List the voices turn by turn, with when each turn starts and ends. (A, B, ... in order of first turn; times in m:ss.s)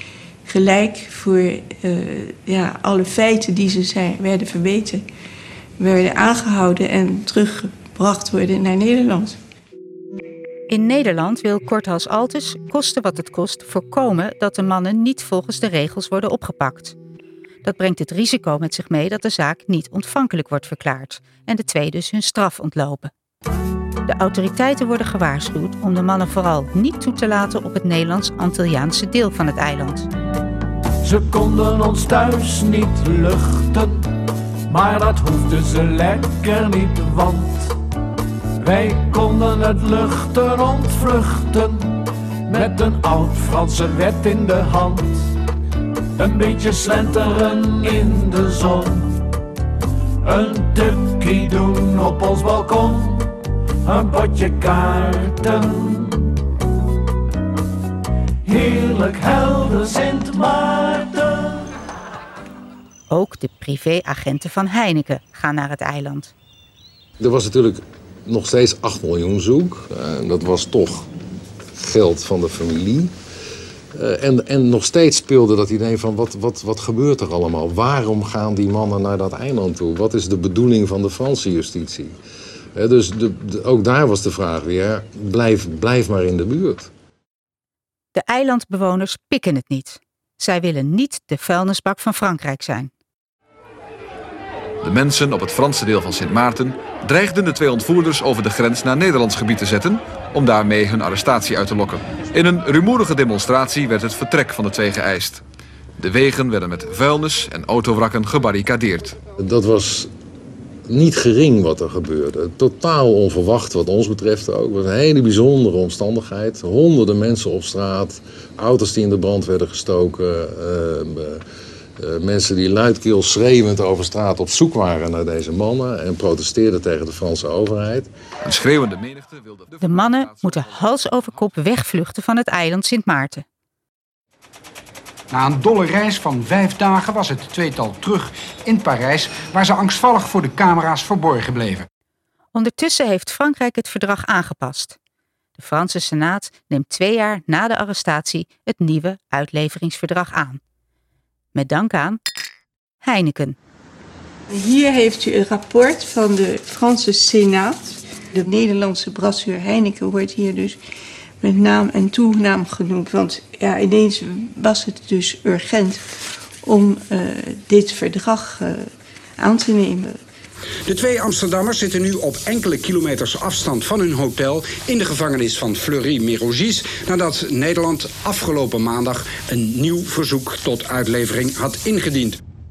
0:00.4-0:05.0 A
0:05.8-0:09.4 A
0:10.7-0:17.0 B
0:17.6-0:23.1 B
0:24.0-0:30.1 B
0:31.0-0:34.0 C
0:34.7-0:37.7 C
0:38.6-0:45.3 C
0:46.2-0:49.2 C
0:50.2-0:53.3 C
0:53.8-0:56.3 C
0:58.4-1:01.6 C
1:03.1-1:06.3 B
1:07.2-1:11.1 D
1:11.7-1:13.1 D
1:13.9-1:22.1 D
1:22.8-1:26.9 D
1:28.1-1:32.9 B
1:34.8-1:45.4 E
1:46.0-1:49.2 E
1:49.4-1:50.1 D
1:50.9-2:01.4 D
2:02.0-2:08.1 D
2:08.4-2:10.7 E
2:09.8-2:13.4 B
2:15.3-2:21.8 F
2:22.5-2:25.0 B
2:25.6-2:30.6 B
2:31.5-2:32.2 B
2:33.0-2:33.6 B
2:34.5-2:40.8 A
2:41.4-2:46.0 A
2:46.6-2:50.2 A
2:50.9-3:02.4 F